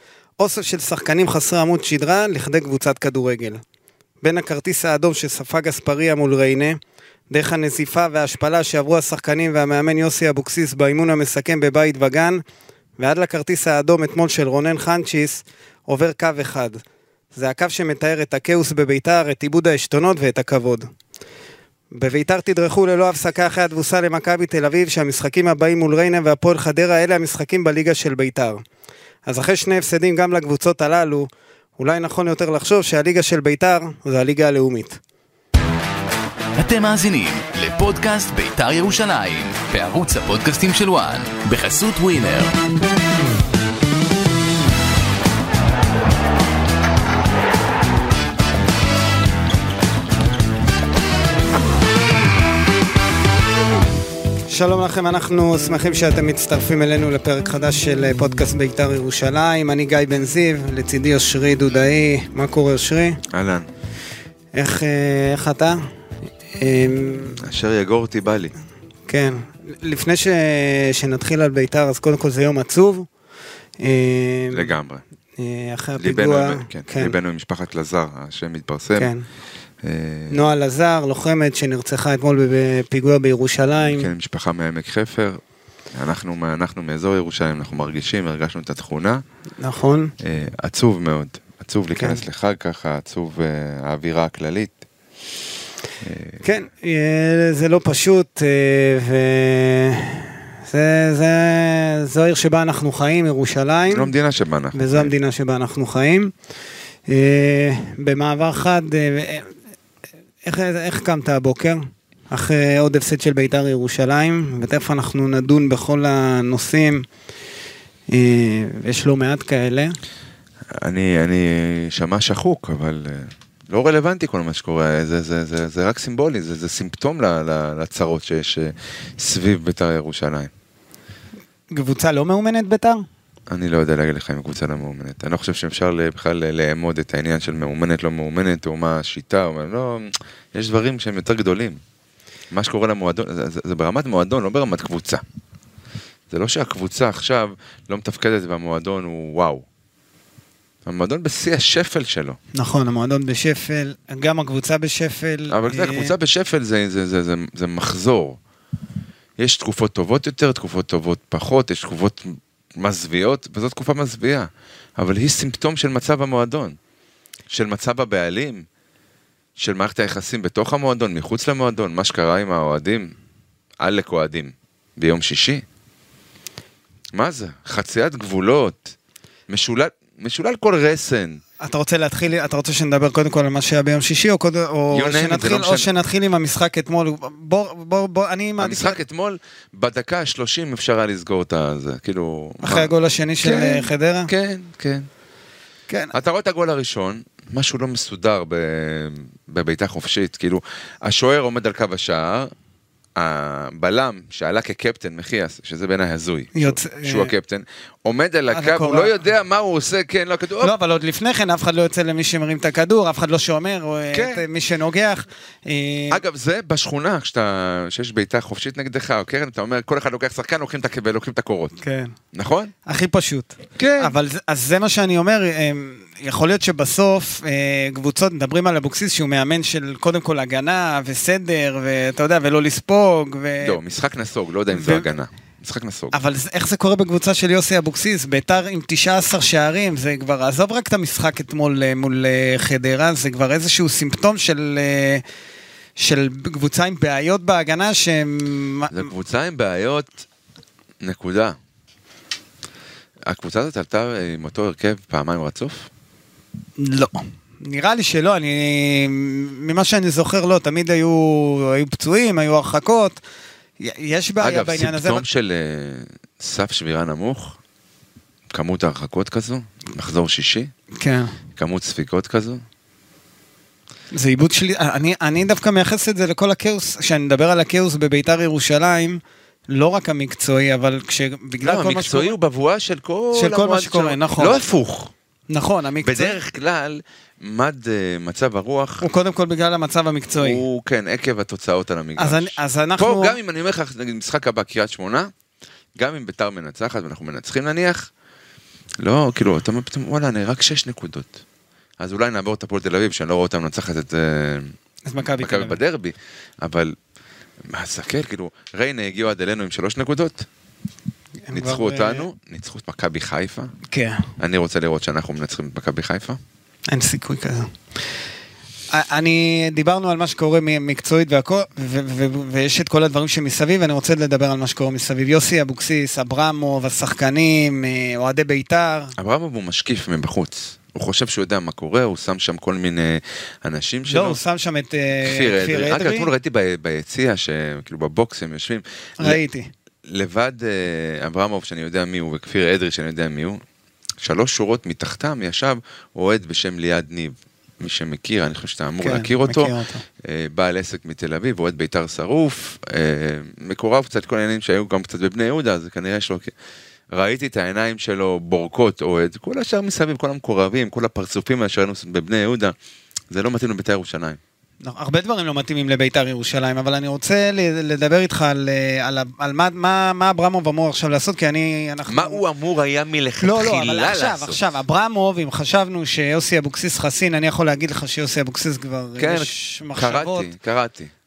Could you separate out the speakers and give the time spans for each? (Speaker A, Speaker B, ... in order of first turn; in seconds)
Speaker A: 0.4-3.6, 4.2-6.8, 7.3-12.4, 13.0-16.8, 17.3-20.9, 21.9-28.6, 29.3-35.0, 54.5-63.2, 64.5-65.8, 66.5-67.4, 69.1-73.1, 73.8-74.7, 75.4-77.2, 79.0-79.2, 80.3-84.1, 89.6-90.1, 92.0-92.2, 96.4-104.1, 104.7-106.3, 107.1-109.5, 110.4-117.1, 118.1-120.0, 131.7-133.0, 152.5-156.2, 181.6-189.0, 192.6-194.3, 195.9-196.1, 206.6-207.3, 208.5-209.1, 210.6-216.2, 221.8-222.1, 222.9-233.8, 234.7-235.1, 236.1-245.2, 246.0-249.1, 256.8-263.2, 263.8-265.2, 271.0-271.4, 274.1-282.4, 283.3-284.6, 285.5-286.4, 289.0-290.6, 292.2-293.4, 305.1-305.8, 311.5-312.3, 313.9-314.3, 316.9-317.7, 318.9-329.1, 334.1-336.3, 339.2-339.7, 349.0-350.0, 364.8-372.4, 373.4-380.5
Speaker B: 36.6-42.6
Speaker C: 63.3-63.7, 67.4-68.5, 74.5-75.0, 76.0-79.1, 79.8-80.4, 83.8-85.4, 85.9-89.2, 90.2-94.8, 96.0-96.4, 103.9-105.1, 120.8-130.5, 133.5-141.8, 142.5-145.2, 146.3-149.7, 150.9-152.4, 155.5-158.4, 159.4-166.8, 167.5-168.7, 169.6-173.1, 173.8-175.6, 177.1-178.9, 179.5-181.4, 184.9-185.9, 188.6-195.1, 196.1-202.5, 203.2-210.7, 214.1-214.4, 216.1-221.8, 222.3-222.7, 223.8-224.1, 233.6-236.2, 248.9-250.2, 251.0-251.6, 253.3-255.9, 264.4-267.6, 268.5-270.7, 271.6-272.6, 281.6-285.1, 286.0-289.1, 290.4-295.3, 296.0-298.1, 299.0-301.4, 302.0-304.7, 305.4-307.0, 307.6-310.5, 311.5-313.7, 314.4-316.4, 329.2-334.4, 335.2-339.4, 340.1-343.6, 344.2-356.5, 357.1-362.8, 363.3-364.4, 372.1-374.6, 379.2-381.1